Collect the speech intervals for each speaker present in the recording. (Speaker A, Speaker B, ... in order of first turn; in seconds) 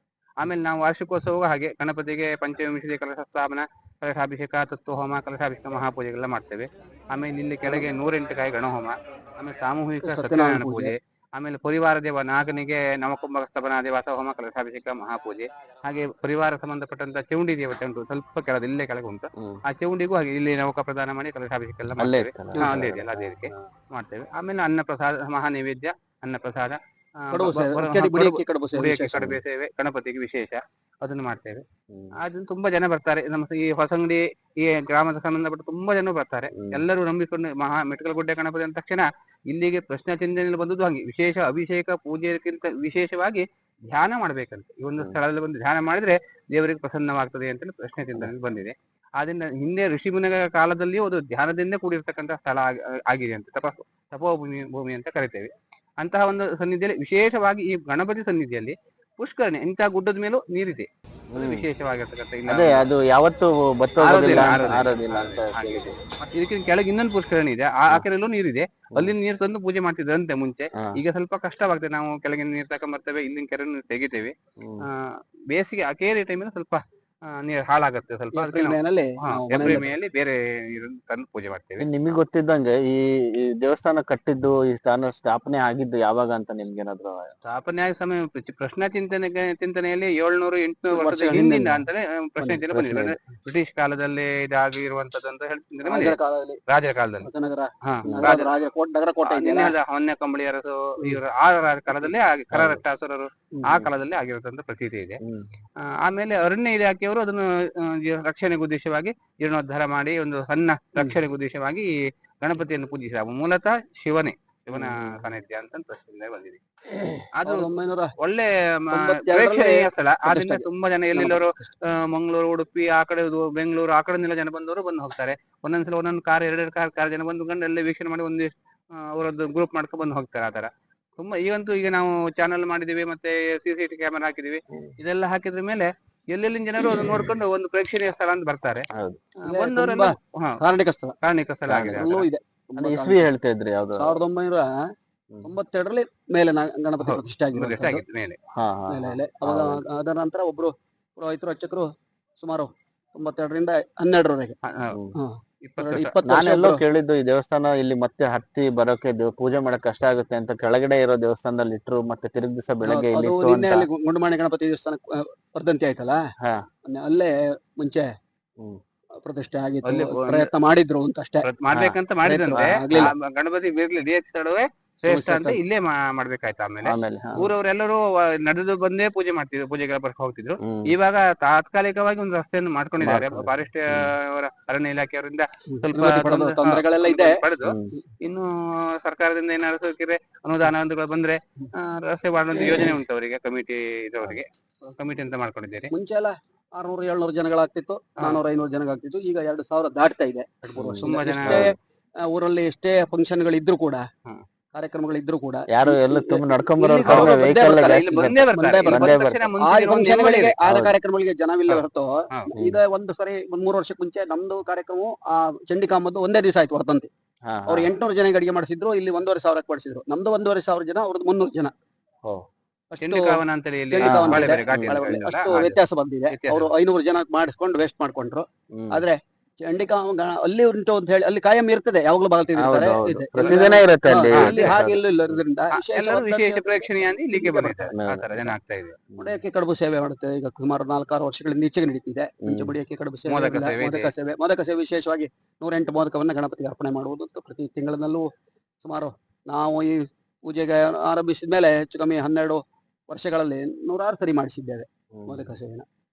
Speaker A: 0.4-31.6, 32.2-62.9, 64.0-81.9, 87.5-96.2, 96.7-97.3, 97.8-98.5, 99.2-105.2, 105.8-116.6, 117.4-138.9, 139.4-140.6, 141.2-142.2, 147.0-148.4, 154.6-155.0, 155.6-156.2, 169.8-170.5, 171.4-195.9, 201.0-201.7, 207.1-210.6, 211.7-212.5, 223.0-225.8, 226.3-226.7, 233.4-233.8, 234.3-234.8, 235.8-239.0, 243.3-244.1
Speaker B: 10.0-10.9, 27.3-29.4, 78.3-79.9, 90.9-91.8, 95.8-96.6, 97.2-99.8, 103.5-103.9, 117.5-118.1, 118.9-121.7, 139.5-141.2, 141.9-143.3, 143.9-144.7, 145.4-148.0, 148.9-151.9, 152.4-154.6, 155.2-156.8, 162.8-166.2, 166.9-168.1, 169.2-171.5, 172.2-173.1, 175.1-175.6, 185.8-187.4, 195.9-204.0, 204.8-217.1, 217.7-221.7, 222.9-238.0, 239.2-248.3, 248.8-255.8
Speaker C: 22.0-23.6, 31.9-32.1, 36.5-36.9, 61.3-61.7, 62.5-66.0, 74.6-74.9, 79.6-79.9, 81.8-87.3, 92.7-93.2, 98.0-98.3, 102.5-102.8, 114.7-115.3, 136.8-137.3, 138.9-139.2, 141.7-142.2, 142.8-144.2, 148.6-149.8, 154.9-155.2, 156.2-163.9, 171.7-172.0, 172.5-173.1, 176.8-177.5, 180.6-180.9, 183.0-184.1, 187.6-188.0, 200.8-201.8, 205.7-209.5, 210.6-210.9, 212.5-212.8, 217.5-217.9, 224.0-225.2, 228.7-229.1, 232.6-235.4, 237.9-238.6, 239.1-239.4, 242.4-242.8, 255.2-255.5